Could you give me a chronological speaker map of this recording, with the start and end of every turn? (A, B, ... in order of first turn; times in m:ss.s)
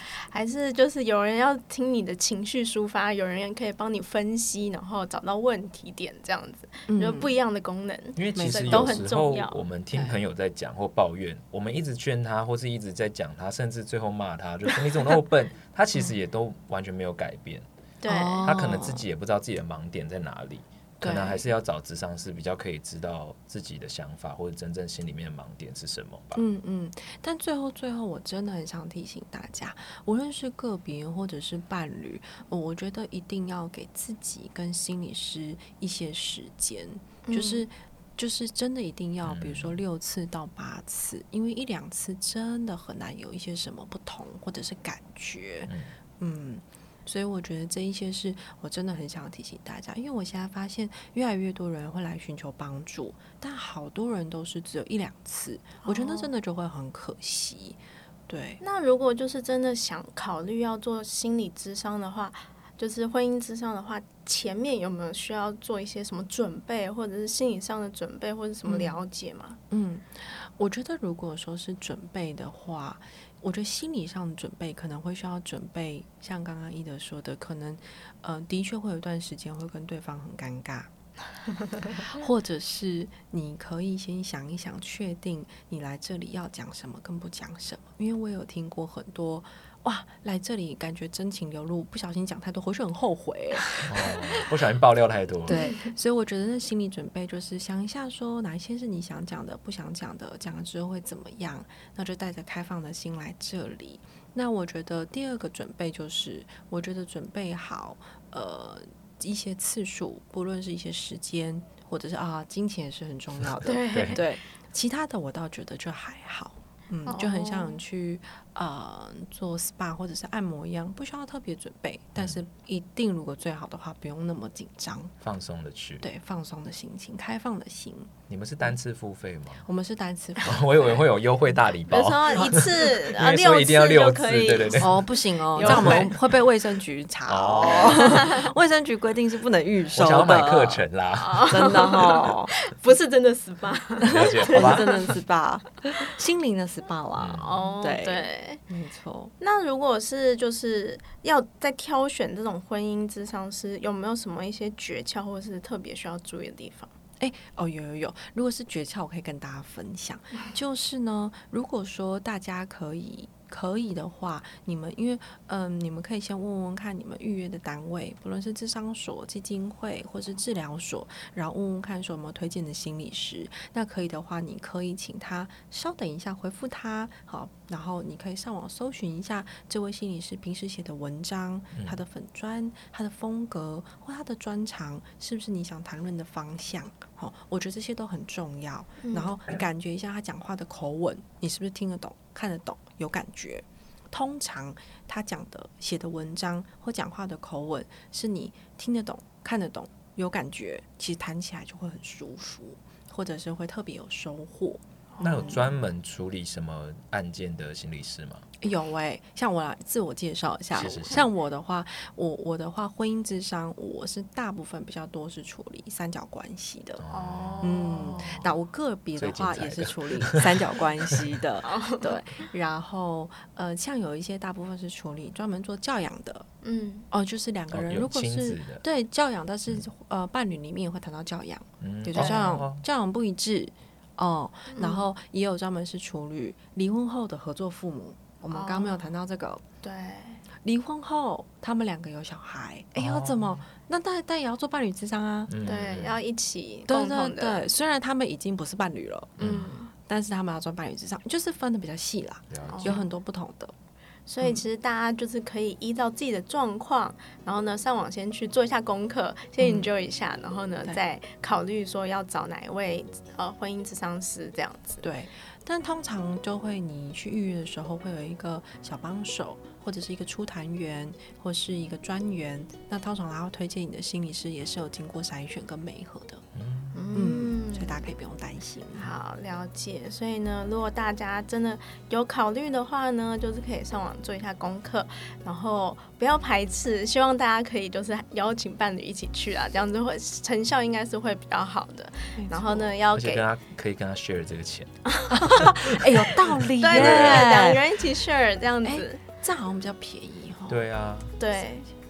0:00.1-0:09.6 A
0:06.9-0:07.3 B
0:08.2-0:17.7 C
0:08.4-0:09.1 B
0:09.9-0:10.2 B
0:18.0-0:18.5 A
0:18.0-0:19.0 B
0:18.4-0:26.4 C
0:21.0-0:21.4 B
0:26.4-0:58.6 B
0:37.2-0:37.6 A
0:39.2-0:39.8 C
0:45.7-0:45.9 C
0:55.8-0:56.3 A
0:58.6-1:09.6 A
1:08.7-1:09.0 B
1:09.7-1:20.9 B
1:21.9-1:34.1 B
1:33.8-1:35.6 C
1:35.5-2:05.2 B
1:35.5-1:35.9 A
1:53.6-1:54.4 A
1:53.9-1:54.2 C
1:57.1-1:57.8 A
2:02.2-2:02.4 C
2:05.2-2:06.0 C
2:06.0-2:08.1 B
2:08.3-2:09.7 C
2:09.6-2:11.0 B
2:10.4-2:14.9 C
2:11.9-2:16.1 A
2:14.8-2:20.9 B
2:15.6-2:16.1 C
2:17.3-2:18.3 C
2:17.8-2:18.5 A
2:19.9-2:21.8 C
2:21.2-2:25.2 A
2:21.5-2:22.5 B
2:24.0-2:24.9 C
2:24.0-2:29.3 B
2:27.2-2:27.6 C
2:27.4-2:28.6 A
2:29.4-2:36.9 A
2:37.2-3:25.6 B
3:09.0-3:09.4 A
3:25.2-3:25.6 A
3:25.2-3:28.5 C
3:28.6-3:37.0 B
3:30.8-3:31.3 C
3:37.0-3:38.5 C
3:37.1-3:38.4 A
3:37.6-3:46.5 B
3:39.2-3:41.2 C
3:41.6-3:42.2 A
3:46.6-3:47.1 A
3:47.1-3:59.6 B
3:47.7-3:48.8 C
3:51.8-3:52.8 C
3:52.2-3:52.6 A
3:54.7-3:55.1 A
3:58.5-3:59.1 A
3:59.8-4:00.4 A
4:00.6-4:05.5 B
4:03.0-4:03.7 C
4:05.5-4:06.2 C
4:05.6-4:07.6 A
4:06.9-4:13.7 B
4:09.4-4:09.9 A
4:09.4-4:09.8 C
4:12.5-4:13.0 C
4:12.7-4:13.0 A
4:14.3-4:25.0 A
4:19.6-4:19.9 B
4:25.0-4:36.4 B
4:36.6-4:37.0 C
4:36.9-4:38.1 A
4:37.1-4:39.1 B
4:39.0-4:53.5 A
4:52.4-4:53.0 B
4:53.1-4:57.5 C
4:55.3-4:57.9 B
4:56.8-4:59.2 A
4:58.8-5:00.8 B
5:00.7-5:01.3 C
5:01.4-5:01.9 A